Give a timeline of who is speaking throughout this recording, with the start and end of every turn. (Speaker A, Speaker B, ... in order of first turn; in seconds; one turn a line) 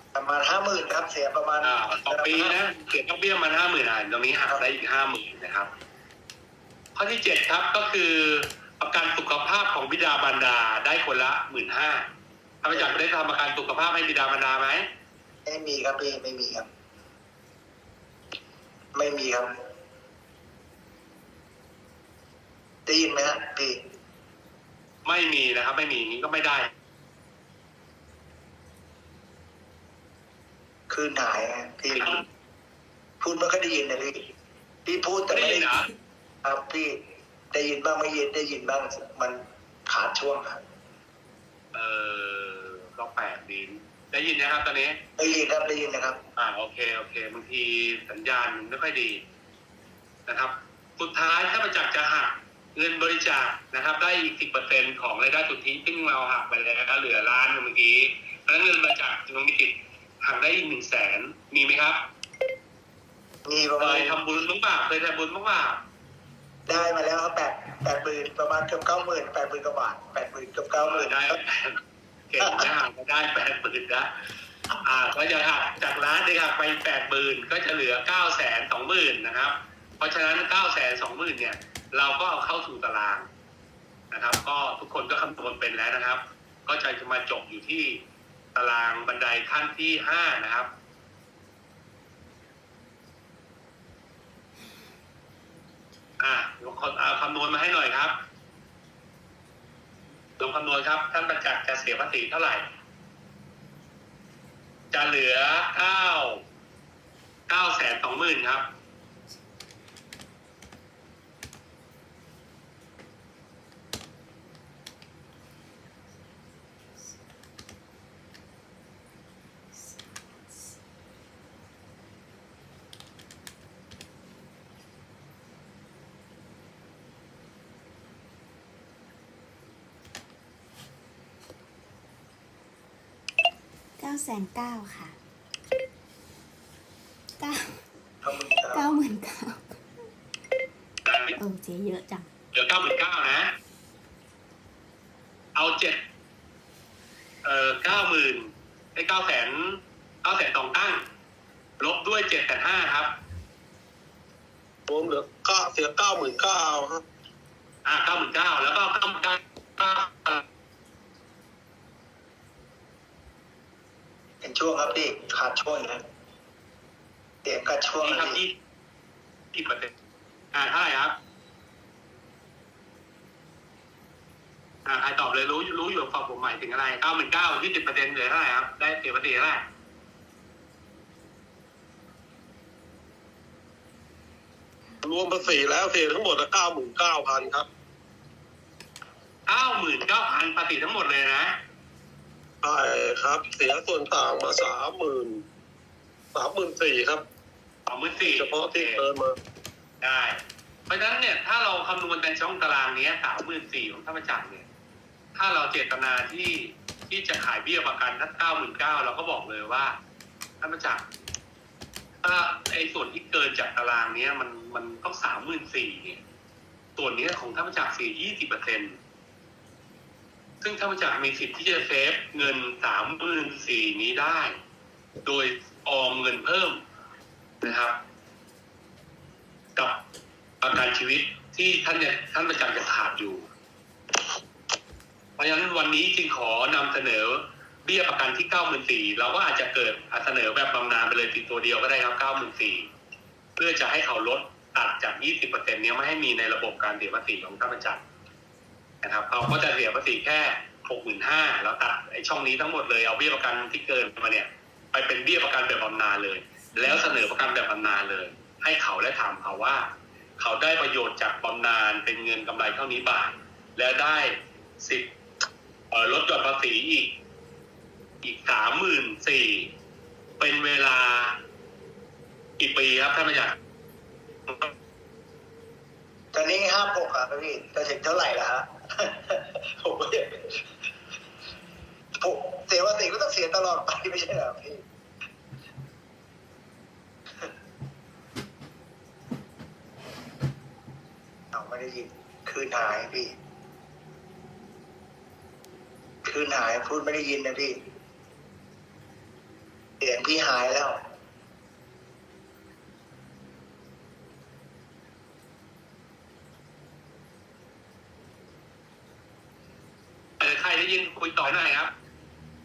Speaker A: 0.1-2.6
Speaker B: 1.6-5.7
Speaker B: 7.0-12.1
Speaker B: 12.6-14.9
Speaker A: 15.5-16.7
Speaker A: 18.9-19.5
Speaker A: 22.9-23.8
Speaker B: 25.1-26.7
Speaker A: 30.9-32.2
Speaker A: 33.2-34.3
Speaker A: 34.9-35.8
Speaker B: 35.3-35.9
Speaker A: 36.4-37.0
Speaker A: 37.5-40.6
Speaker B: 41.7-45.0
Speaker A: 45.2-46.2
Speaker B: 46.4-49.2
Speaker B: 50.3-62.0
Speaker A: 63.5-64.2
Speaker B: 63.8-65.8
Speaker A: 66.7-71.4
Speaker B: 70.8-74.1
Speaker A: 72.4-72.7
Speaker B: 74.8-83.3
Speaker B: 84.1-90.7
Speaker B: 96.2-98.2
Speaker B: 100.4-102.6
Speaker B: 104.9-106.4
Speaker B: 107.5-108.7
Speaker C: 134.0-135.2
Speaker C: 137.4-137.8
Speaker A: 138.2-138.9
Speaker C: 138.7-139.8
Speaker B: 141.1-141.4
Speaker C: 141.4-142.3
Speaker B: 142.5-143.5
Speaker B: 145.6-146.0
Speaker B: 147.4-151.1
Speaker B: 151.8-153.2
Speaker D: 154.9-157.0
Speaker B: 157.8-160.4
Speaker A: 164.4-166.0
Speaker A: 167.4-168.4
Speaker B: 168.0-168.6
Speaker B: 169.5-169.9
Speaker B: 170.5-171.2
Speaker B: 174.9-179.7
Speaker D: 185.0-187.7
Speaker B: 189.5-191.6
Speaker D: 192.6-195.4
Speaker D: 196.3-197.2
Speaker B: 197.9-199.1
Speaker D: 198.2-199.3
Speaker B: 200.0-204.7
Speaker B: 205.3-210.0
Speaker B: 210.6-211.1
Speaker B: 212.2-216.2
Speaker B: 217.0-219.0
Speaker B: 220.6-224.6
Speaker B: 225.2-226.8
Speaker B: 227.6-228.0
Speaker B: 229.8-230.0
Speaker B: 230.6-233.4
Speaker B: 235.4-242.9
Speaker B: 243.6-248.0
Speaker B: 249.0-265.1
Speaker B: 265.9-267.2
Speaker B: 268.2-269.7
Speaker B: 270.4-271.4
Speaker B: 272.6-273.6
Speaker A: 276.3-280.6
Speaker A: 282.2-284.8
Speaker A: 291.5-293.3
Speaker A: 296.2-297.8
Speaker A: 300.0-301.0
Speaker B: 310.4-311.9